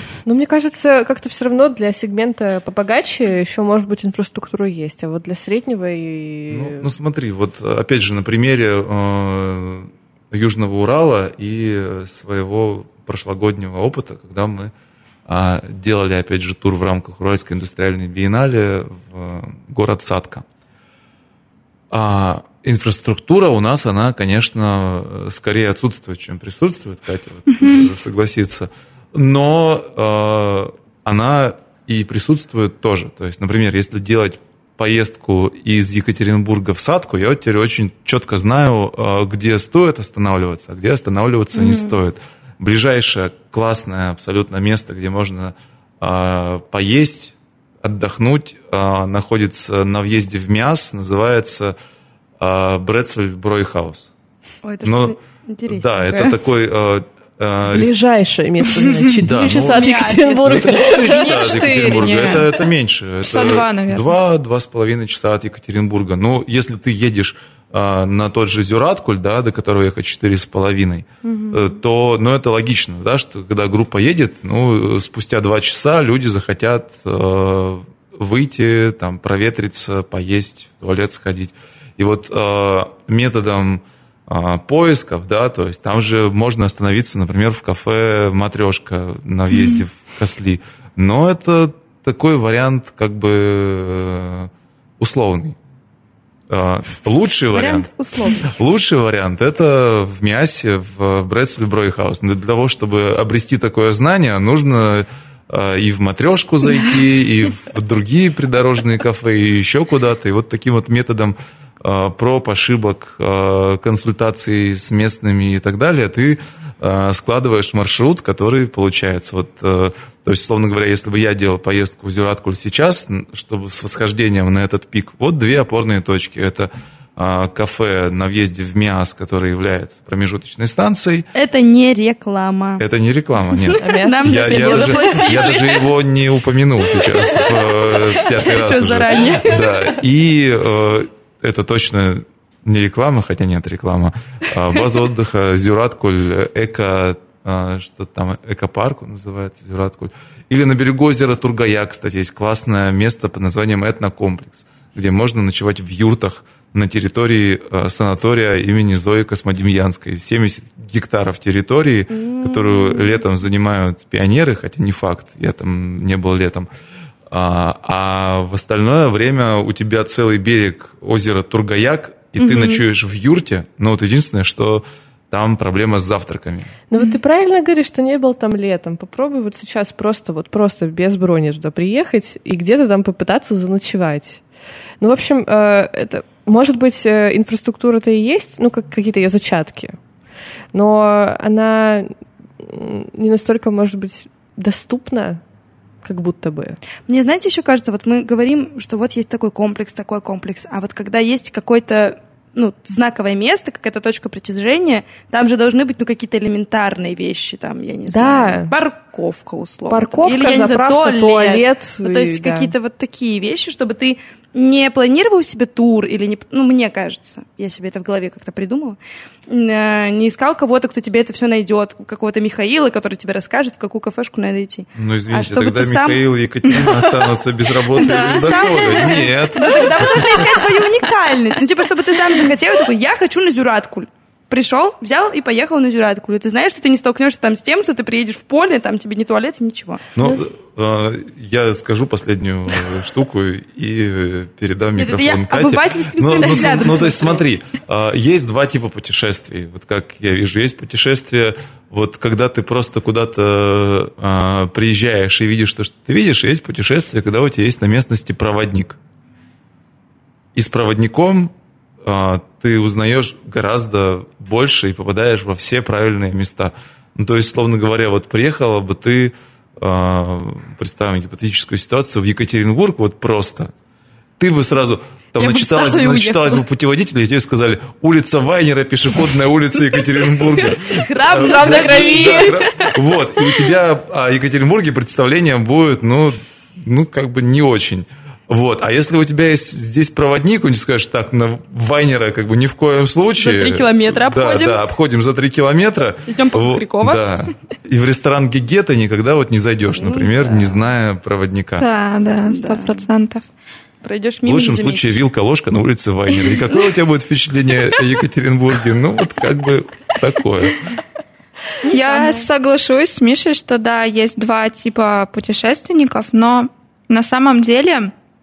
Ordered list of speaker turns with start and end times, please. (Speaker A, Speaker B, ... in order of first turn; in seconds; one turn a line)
Speaker A: 0.3-6.9
Speaker B: 6.5-14.7
Speaker B: 15.3-20.4
Speaker B: 21.9-51.8
Speaker C: 41.5-42.0
Speaker B: 52.4-54.1
Speaker C: 54.6-56.4
Speaker B: 54.8-55.1
Speaker B: 55.7-58.0
Speaker A: 57.7-61.6
Speaker B: 59.2-95.6
Speaker C: 59.4-61.0
Speaker D: 61.1-62.5
Speaker D: 63.2-64.1
Speaker C: 71.2-71.7
Speaker D: 89.5-89.8
Speaker B: 96.5-97.9
Speaker C: 97.5-98.5
Speaker B: 98.4-131.3
Speaker C: 131.3-132.8
Speaker B: 132.8-166.7
Speaker C: 133.6-135.8
Speaker A: 133.8-135.3
Speaker C: 137.1-139.8
Speaker C: 162.1-163.2
Speaker B: 167.3-176.7
Speaker C: 172.4-172.8
Speaker A: 176.9-184.4
Speaker A: 185.0-190.0
Speaker A: 190.7-195.4
Speaker A: 196.0-196.8
Speaker C: 197.1-226.2
Speaker A: 208.1-208.8
Speaker A: 209.9-212.7
Speaker B: 224.9-230.6
Speaker C: 227.9-240.4
Speaker D: 228.0-229.2
Speaker B: 240.2-259.0
Speaker C: 245.0-247.4
Speaker B: 260.6-261.5
Speaker B: 262.0-273.7
Speaker B: 274.4-301.9
Speaker C: 275.4-276.6
Speaker C: 280.7-282.9
Speaker C: 293.4-294.8
Speaker C: 296.3-297.2
Speaker C: 299.9-300.8
Speaker D: 301.8-303.5
Speaker C: 302.5-303.1
Speaker C: 304.0-305.1
Speaker B: 304.4-310.9
Speaker C: 311.8-312.5
Speaker D: 311.9-318.1